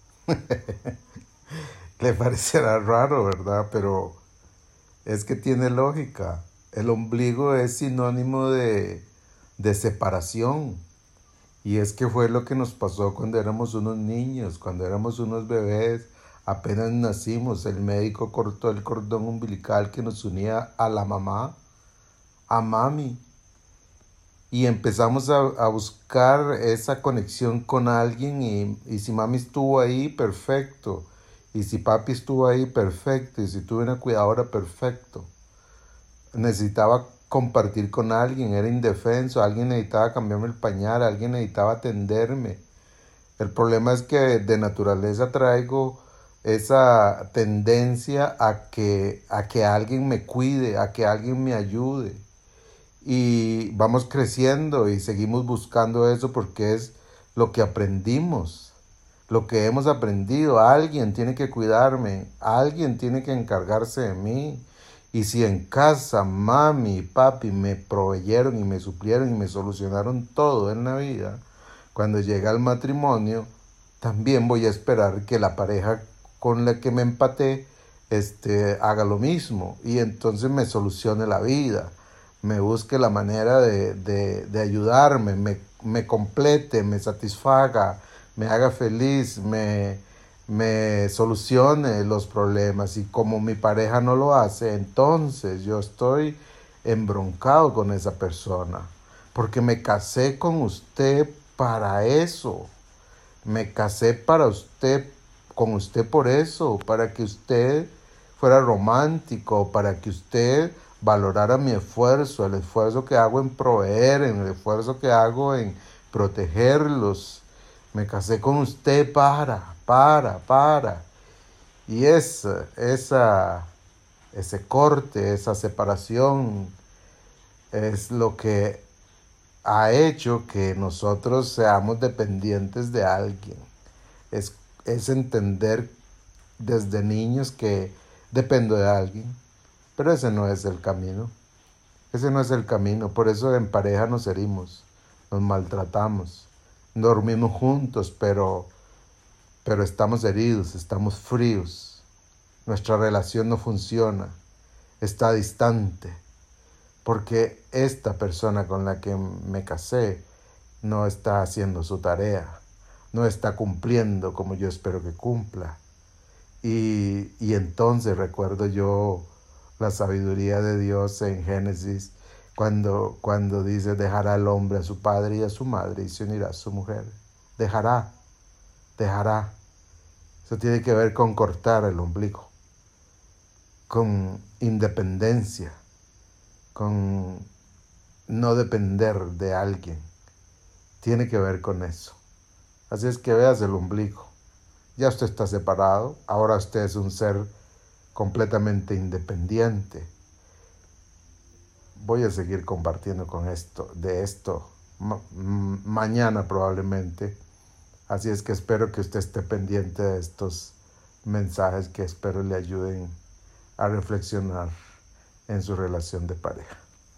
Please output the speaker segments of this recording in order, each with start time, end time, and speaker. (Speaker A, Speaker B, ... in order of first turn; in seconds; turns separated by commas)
Speaker A: 0.3-0.9, Speaker A: 2.0-4.2, Speaker A: 5.0-9.1, Speaker A: 9.6-10.8, Speaker A: 11.6-21.6, Speaker A: 22.5-23.2, Speaker A: 24.5-35.3, Speaker A: 36.3-42.6, Speaker A: 43.4-52.2, Speaker A: 53.0-58.8, Speaker A: 59.3-71.4, Speaker A: 71.9-102.7, Speaker A: 103.4-121.1, Speaker A: 121.9-123.7, Speaker A: 124.3-126.7, Speaker A: 127.7-128.8, Speaker A: 129.6-133.7, Speaker A: 134.3-135.9, Speaker A: 136.6-139.4, Speaker A: 139.9-141.3, Speaker A: 142.1-148.7, Speaker A: 149.6-152.0, Speaker A: 152.6-154.4, Speaker A: 155.0-156.2, Speaker A: 157.0-160.2, Speaker A: 160.8-162.6, Speaker A: 163.1-165.8, Speaker A: 166.6-169.2, Speaker A: 169.8-178.1, Speaker A: 179.0-179.5, Speaker A: 180.4-182.5, Speaker A: 183.9-185.8, Speaker A: 186.7-187.5, Speaker A: 188.3-190.1, Speaker A: 191.0-192.2, Speaker A: 192.9-194.3, Speaker A: 194.9-197.5, Speaker A: 198.1-200.1, Speaker A: 202.0-207.4, Speaker A: 208.1-213.1, Speaker A: 213.8-214.7, Speaker A: 215.5-216.8